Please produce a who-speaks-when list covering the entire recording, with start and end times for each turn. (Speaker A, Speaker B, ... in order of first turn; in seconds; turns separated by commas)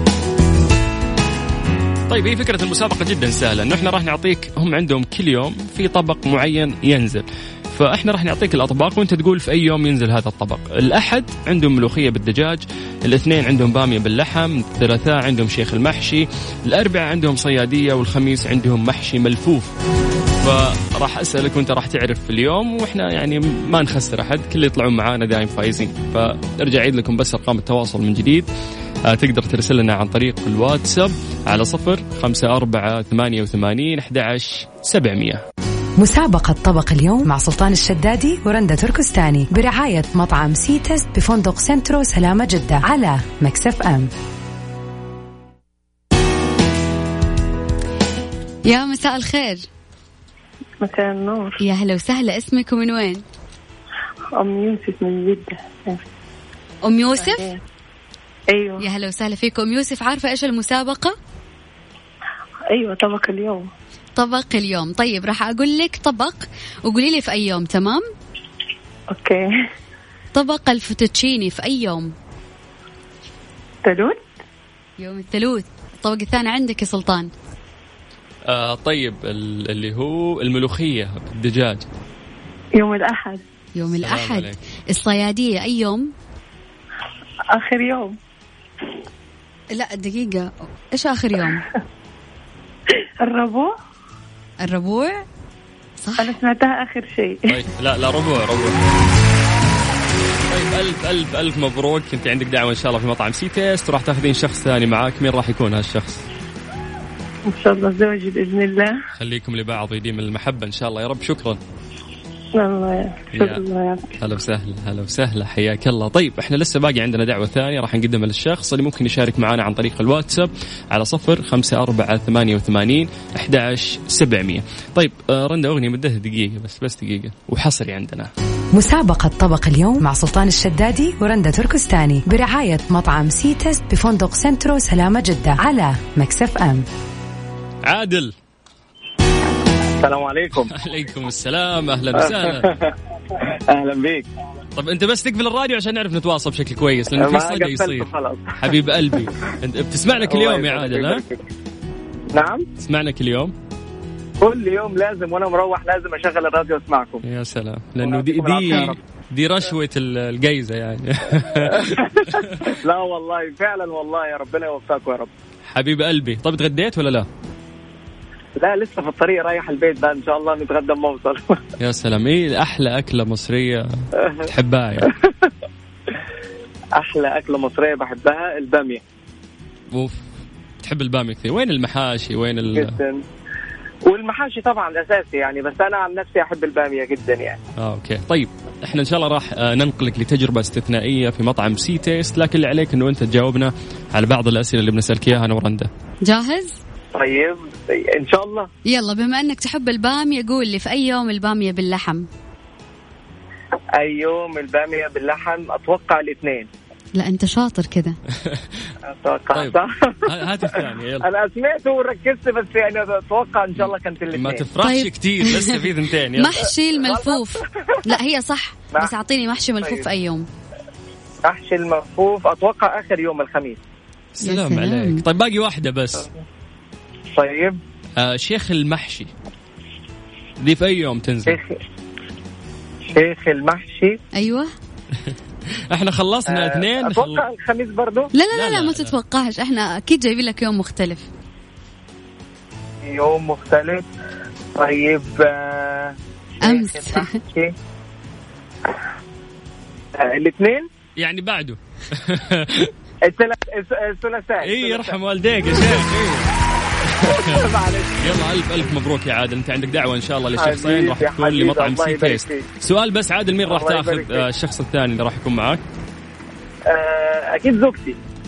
Speaker A: 2.1-19.7, Speaker A: 20.4-28.5, Speaker A: 29.1-35.4, Speaker B: 36.0-44.1, Speaker C: 48.6-49.6, Speaker D: 50.8-51.6, Speaker C: 51.6-53.2, Speaker D: 54.3-56.0, Speaker C: 56.8-57.5, Speaker D: 57.2-57.6, Speaker D: 58.5-58.9, Speaker C: 58.8-61.1, Speaker D: 62.7-63.7, Speaker C: 64.2-68.0, Speaker D: 69.1-69.5, Speaker C: 70.3-72.1, Speaker D: 73.8-74.2, Speaker C: 75.0-77.3, Speaker A: 78.5-81.9, Speaker D: 82.8-83.4, Speaker C: 83.7-86.1, Speaker A: 84.0-84.6, Speaker D: 87.5-88.2, Speaker C: 89.7-91.6, Speaker D: 93.2-93.7, Speaker C: 94.6-95.2, Speaker C: 96.0-96.3, Speaker D: 96.2-97.6, Speaker A: 97.5-98.8, Speaker A: 100.5-106.2, Speaker D: 107.5-109.0, Speaker A: 109.1-111.6, Speaker D: 112.5-114.2, Speaker A: 113.3-113.6, Speaker A: 114.2-128.3, Speaker B: 128.7-136.8, Speaker A: 137.8-138.3, Speaker E: 140.0-140.7, Speaker A: 140.6-142.7, Speaker E: 142.2-144.3, Speaker A: 144.8-151.2, Speaker E: 147.2-148.5, Speaker E: 150.2-151.4, Speaker E: 152.3-152.7, Speaker A: 152.8-153.5, Speaker E: 154.4-157.2, Speaker A: 157.2-162.7, Speaker E: 158.0-159.0, Speaker E: 161.7-165.3, Speaker A: 165.7-167.3, Speaker E: 168.6-171.6, Speaker A: 171.8-173.8, Speaker A: 174.4-175.1, Speaker E: 176.9-179.0, Speaker A: 179.9-180.2, Speaker A: 180.8-183.0, Speaker E: 182.7-183.2, Speaker E: 184.1-187.6, Speaker A: 187.8-195.9, Speaker C: 196.2-196.7, Speaker E: 197.1-198.7, Speaker C: 198.9-202.3, Speaker E: 204.0-206.7, Speaker C: 207.2-208.2, Speaker E: 209.2-210.2, Speaker A: 209.5-211.3, Speaker E: 210.7-214.7, Speaker A: 213.8-216.7, Speaker C: 214.8-220.4, Speaker E: 217.0-217.6, Speaker E: 221.4-223.8, Speaker A: 224.3-226.3, Speaker C: 224.4-225.2, Speaker E: 227.3-227.8, Speaker A: 228.2-229.3, Speaker A: 230.6-231.6, Speaker E: 231.5-231.8, Speaker E: 233.1-234.2, Speaker C: 234.3-234.7, Speaker A: 235.9-237.4, Speaker E: 236.5-238.3, Speaker C: 238.3-241.3, Speaker A: 238.5-239.1, Speaker E: 243.0-244.1, Speaker E: 244.7-247.7, Speaker C: 246.6-247.4, Speaker E: 250.1-250.9, Speaker A: 251.2-252.9, Speaker E: 253.2-255.1, Speaker A: 254.6-256.5, Speaker A: 257.1-265.8, Speaker E: 257.2-258.1, Speaker E: 260.6-262.6, Speaker E: 263.6-264.4, Speaker E: 266.9-268.2